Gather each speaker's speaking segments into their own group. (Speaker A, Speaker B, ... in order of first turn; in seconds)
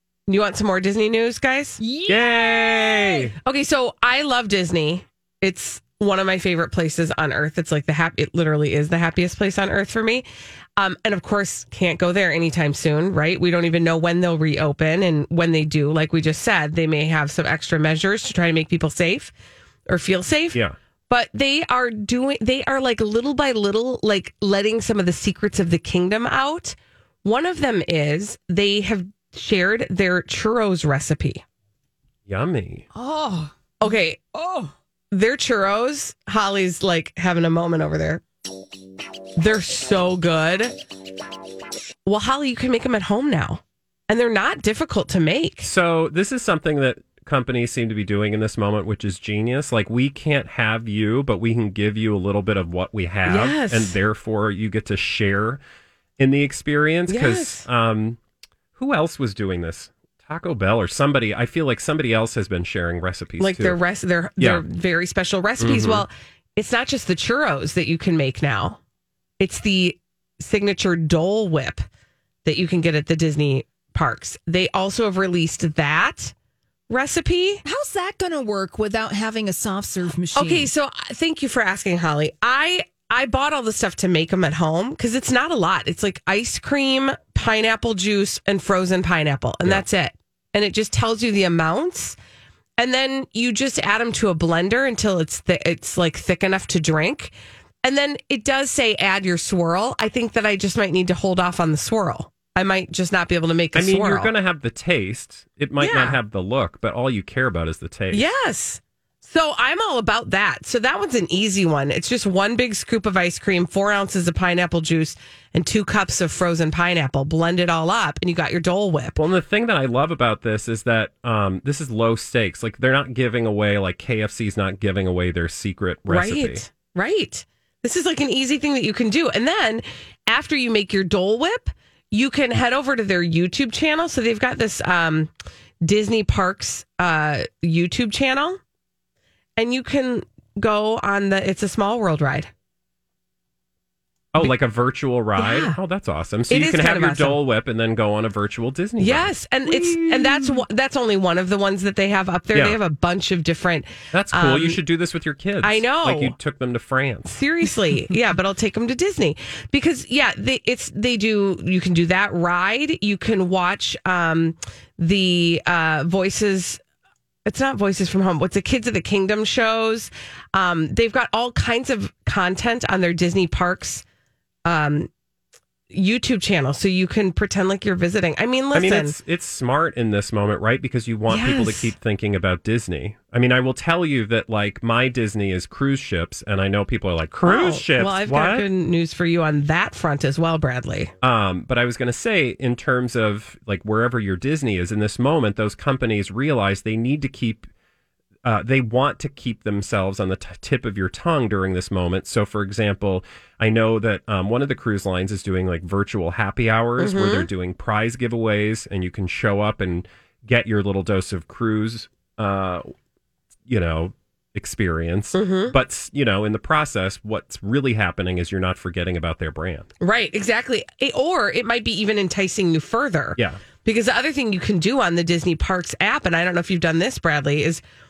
Speaker A: 0.3-1.8, 3.4-10.2, 10.8-19.3, 19.9-31.4, 33.8-34.5, 35.1-38.2, 39.4-40.7, 42.1-45.7, 53.2-54.0, 57.1-57.7, 63.4-68.8, 69.4-71.8, 72.5-76.3, 76.9-77.6, 80.4-92.2, 92.8-97.3, 97.8-104.3, 105.8-106.2, 108.1-119.2, 126.1-135.3, 135.8-138.6, 139.6-142.5, 145.4-145.8, 146.5-147.4, 149.0-154.8, 155.6-156.4, 157.3-166.8, 167.4-174.0, 174.7-175.1, 175.9-179.2, 181.3-181.9, 187.4-191.1, 207.0-207.5, 215.3-215.7, 220.0-227.8
Speaker B: 1.8-3.3, 32.9-33.5, 34.4-34.7, 77.7-80.7
Speaker C: 2.1-3.4, 32.3-32.9, 45.6-55.6, 56.2-58.2, 58.8-63.8, 64.4-64.6, 65.6-66.0, 103.8-108.3, 119.2-126.7, 144.3-150.6, 152.5-152.8, 154.1-157.3, 178.7-188.7, 191.2-197.7, 198.4-212.9, 213.7-219.9, 223.4-223.6